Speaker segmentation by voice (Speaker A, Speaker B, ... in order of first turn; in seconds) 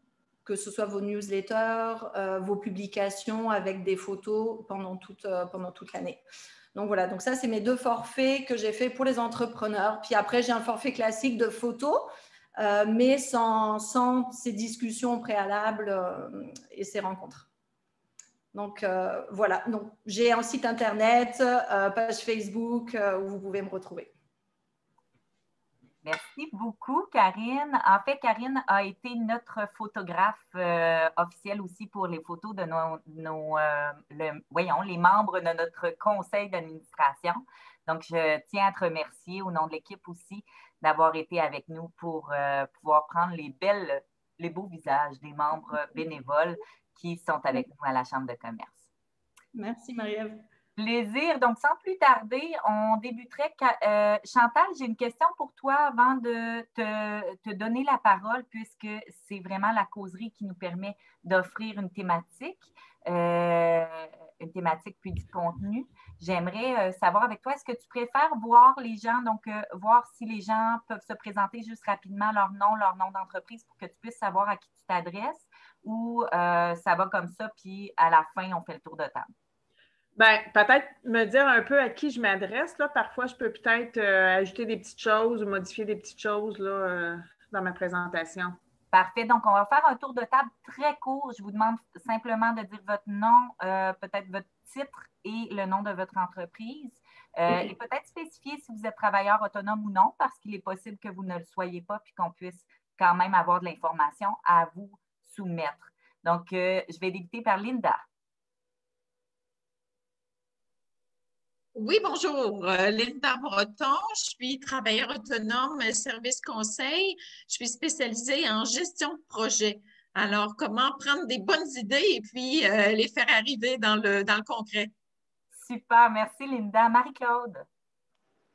Speaker A: 0.5-17.5, 18.5-24.1, 49.6-50.3
Speaker B: 26.0-48.9, 50.8-79.3, 88.9-108.0, 125.5-127.7
Speaker C: 80.2-88.6
Speaker D: 111.8-124.9